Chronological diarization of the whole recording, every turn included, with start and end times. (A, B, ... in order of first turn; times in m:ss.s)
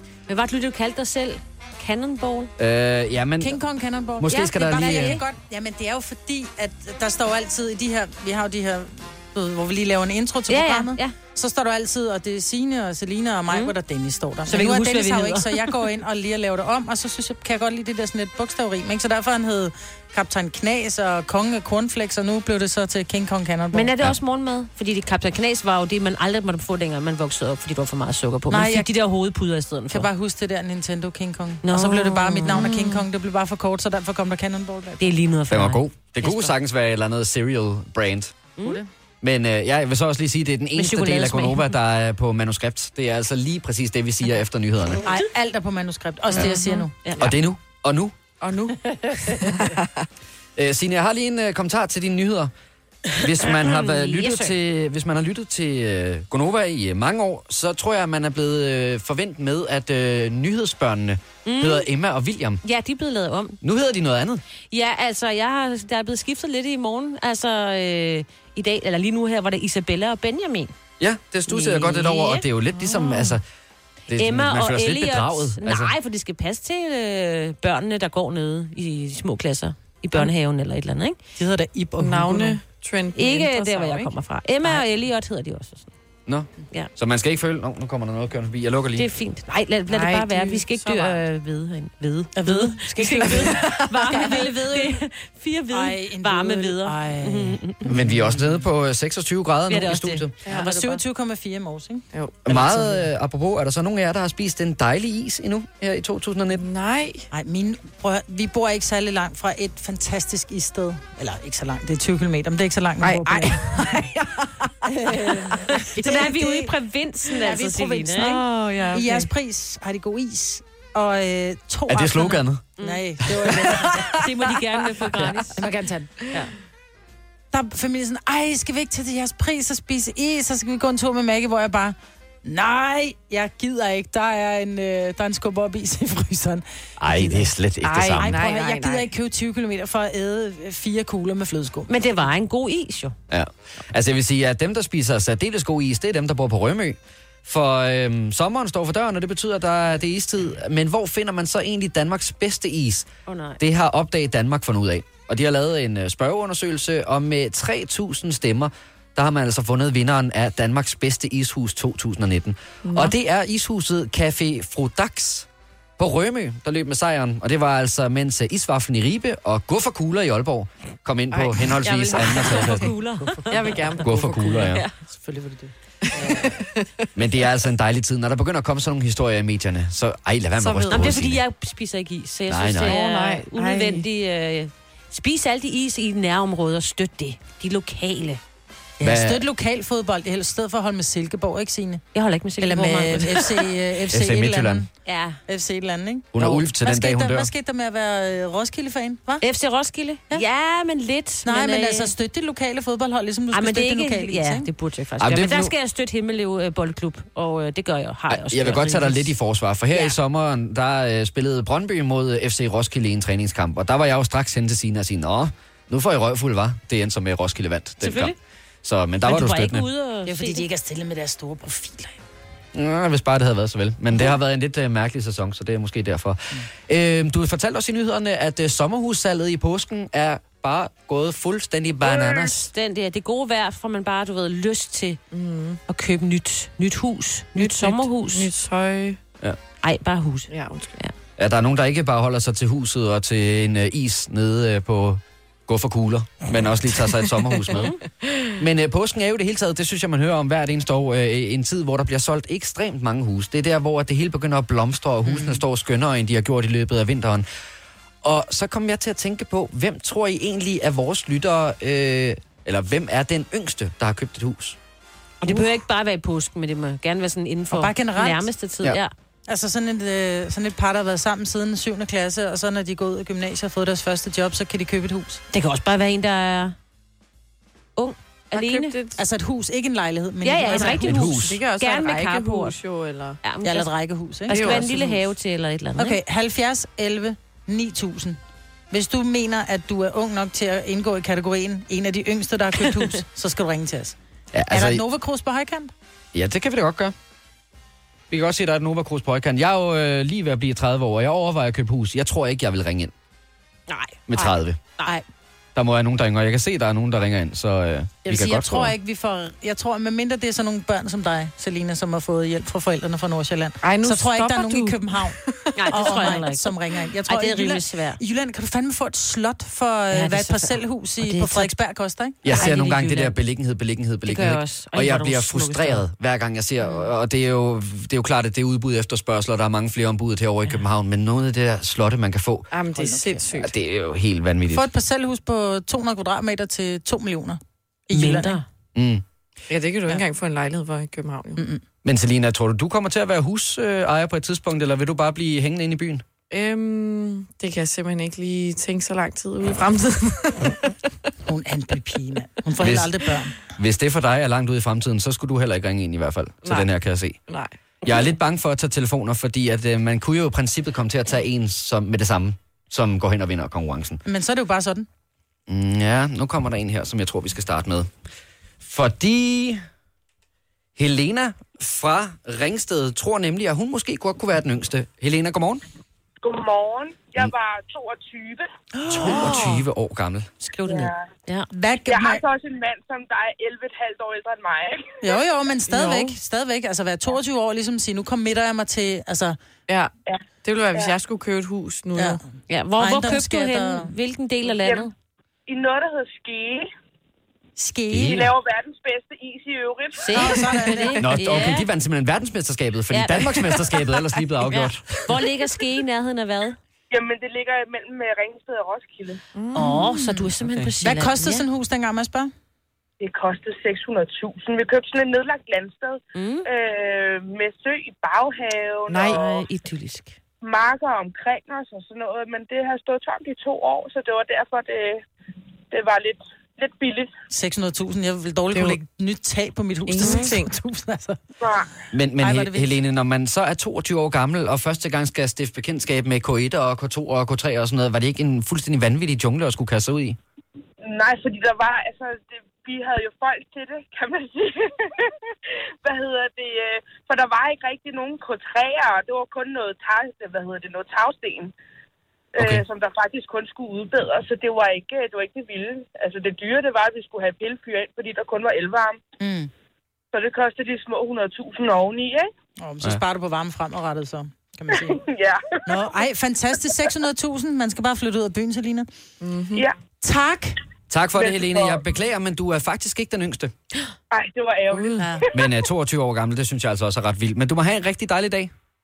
0:00.3-0:02.5 A
0:02.6-0:03.6 B
0:03.4-0:23.9 C
0:04.2-0:05.2 B
0:04.3-0:05.2 A
0:10.5-0:11.1 A
0:13.5-0:13.7 A
0:14.4-0:15.7 A
0:23.7-0:30.1 A
0:28.5-0:28.9 C
0:29.9-0:35.1 C
0:31.6-0:32.8 A
0:32.5-0:33.0 D
0:35.0-0:36.5 A
0:35.5-0:38.3 B
0:39.2-0:45.1 B
0:40.8-0:41.7 A
0:45.0-0:46.9 C
0:46.3-0:47.2 A
0:47.2-0:48.1 B
0:48.4-0:50.0 D
0:49.1-0:49.5 C
0:50.6-0:52.5 B
0:53.2-1:02.6 B
0:53.4-0:54.5 A
1:01.4-1:01.9 A
1:02.6-1:03.6 A
1:03.6-1:04.4 B
1:04.7-1:10.7 A
1:11.0-1:13.4 B
1:11.5-1:12.4 A
1:12.7-1:13.4 D
1:14.1-1:15.9 B
1:14.2-1:21.2 A
1:21.4-1:22.6 C
1:22.0-1:24.1 D
1:23.2-1:25.9 A
1:26.2-1:29.0 B
1:28.9-1:37.8 A
1:29.9-1:31.2 D
1:32.4-1:34.9 C
1:33.2-1:34.4 D
1:35.7-1:38.5 C
1:37.9-1:40.3 B
1:39.7-1:41.0 A
1:40.5-1:43.0 C
1:42.1-1:42.7 D
1:42.4-1:46.6 B
1:46.6-1:47.3 D
1:47.3-1:54.2 C
1:53.0-1:54.1 D
1:54.8-1:56.8 C
1:55.8-1:58.4 A
1:57.3-2:04.2 C
1:58.2-1:59.3 D
2:01.9-2:02.6 B
2:02.8-2:03.0 A
2:04.2-2:05.6 A
2:05.5-2:06.3 C
2:07.5-2:16.6 C
2:17.0-2:18.4 B
2:17.2-2:17.5 C
2:17.8-2:19.1 D
2:18.2-2:21.9 C
2:21.9-2:23.2 A
2:23.3-2:33.1 B
2:33.3-2:33.6 A
2:33.6-2:45.5 B
2:42.8-2:43.1 D
2:46.0-2:52.9 B
2:51.3-2:51.7 D
2:51.8-2:53.9 A
2:52.6-2:53.7 C
2:53.5-2:54.9 D
2:54.0-2:54.8 B
2:55.0-2:56.6 C
2:56.0-2:56.9 D
2:57.1-3:01.4 B
3:00.6-3:01.2 D
3:00.9-3:08.4 A
3:02.5-3:03.0 B
3:02.8-3:04.0 D
3:09.0-3:12.0 C
3:09.0-3:09.4 B
3:12.1-3:13.6 A
3:12.6-3:14.9 C
3:14.1-3:14.8 B
3:15.0-3:15.4 A
3:15.4-3:19.4 C
3:16.3-3:17.5 B
3:19.4-3:22.1 A
3:21.4-3:24.7 C
3:23.5-3:29.4 A
3:25.2-3:25.7 B
3:28.3-3:39.9 B
3:38.0-3:38.4 A
3:39.2-3:40.6 A
3:40.2-3:42.2 C
3:42.7-3:52.7 B
3:52.2-3:55.2 A
3:55.3-3:55.8 D
3:55.9-3:58.5 A
3:57.6-3:59.2 D
3:59.8-4:01.1 A
4:00.5-4:00.9 D
4:01.4-4:08.0 B
4:08.6-4:17.4 B
4:15.2-4:15.6 C
4:18.2-4:24.8 B
4:25.4-4:29.1 A
4:27.7-4:28.5 C
4:29.5-4:35.4 C
4:35.5-4:36.8 A
4:38.0-4:39.0 A
4:38.5-4:39.2 D
4:39.2-4:41.1 C
4:40.4-4:42.8 A
4:40.7-4:43.4 D
4:40.9-4:41.6 B
4:43.4-4:43.9 A
4:43.6-4:44.9 C
4:44.5-4:46.2 A
4:44.5-4:45.2 D
4:46.0-4:48.4 C
4:48.9-4:54.2 C
4:54.5-4:55.0 B
4:54.7-4:55.9 C
4:56.3-4:57.1 B
4:58.3-5:03.1 B
5:03.9-5:05.1 A
5:04.3-5:04.8 B
5:05.7-5:08.9 B
5:08.2-5:15.4 C
5:13.8-5:16.3 D
5:15.8-5:16.7 A
5:15.9-5:22.4 C
5:17.3-5:18.2 A
5:20.1-5:21.7 A
5:22.4-5:32.7 B
5:22.5-5:23.4 A
5:24.2-5:26.0 A
5:32.7-5:33.7 D
5:32.9-5:33.5 C
5:33.6-5:34.9 B
5:34.7-5:38.6 C
5:38.1-5:38.6 A
5:38.9-5:39.2 B
5:39.7-5:41.6 D
5:41.6-5:41.8 C
5:42.0-5:46.2 B
5:46.5-5:50.9 D
5:51.4-5:53.6 C
5:52.8-5:53.2 B
5:53.8-5:57.4 B
5:56.6-5:56.9 D
5:57.5-5:58.2 D
5:58.0-6:04.2 B
6:04.2-6:05.0 C
6:05.7-6:08.1 B
6:08.8-6:09.8 B
6:11.0-6:15.8 B
6:16.4-6:18.7 E
6:19.0-6:19.8 C
6:19.1-6:20.5 B
6:19.2-6:19.8 A
6:20.6-6:21.7 A
6:20.8-6:21.3 E
6:21.7-6:22.4 C
6:22.0-6:25.4 E
6:25.2-6:29.6 C
6:25.9-6:26.4 D
6:30.3-6:31.1 E
6:30.6-6:32.4 D
6:32.7-6:35.1 A
6:33.0-6:34.1 C
6:34.8-6:35.1 E
6:35.7-6:36.9 E
6:37.8-6:38.4 C
6:38.1-6:38.5 B
6:38.3-6:40.6 E
6:40.2-6:41.9 A
6:40.3-6:41.2 C
6:40.4-6:40.7 D
6:41.2-6:45.2 B
6:43.1-6:43.6 A
6:44.7-6:46.8 A
6:47.1-6:49.4 E
6:49.5-6:50.5 D
6:49.7-6:51.6 A
6:51.0-6:52.5 C
6:53.2-6:59.6 E
6:56.3-6:56.6 A
6:59.1-6:59.4 D
6:59.1-7:00.3 A
7:00.6-7:05.2 E
7:05.9-7:07.3 E
7:07.5-7:11.4 C
7:08.7-7:09.0 D
7:10.1-7:10.7 D
7:10.2-7:10.5 A
7:11.6-7:11.9 E
7:12.1-7:20.4 B
7:12.4-7:12.9 C
7:21.0-7:25.3 E
7:26.0-7:31.7 E
7:32.5-7:39.2 E
7:32.6-7:32.8 B
7:39.4-7:39.7 C
7:40.3-7:42.5 E
7:42.8-7:45.2 C
7:45.0-7:45.9 E
7:45.8-7:49.1 C
7:49.4-7:49.9 D
7:50.2-7:50.7 C
7:51.1-7:53.7 B
7:51.4-7:52.0 E
7:54.3-7:55.5 E
7:54.9-7:55.3 D
7:55.5-7:58.7 B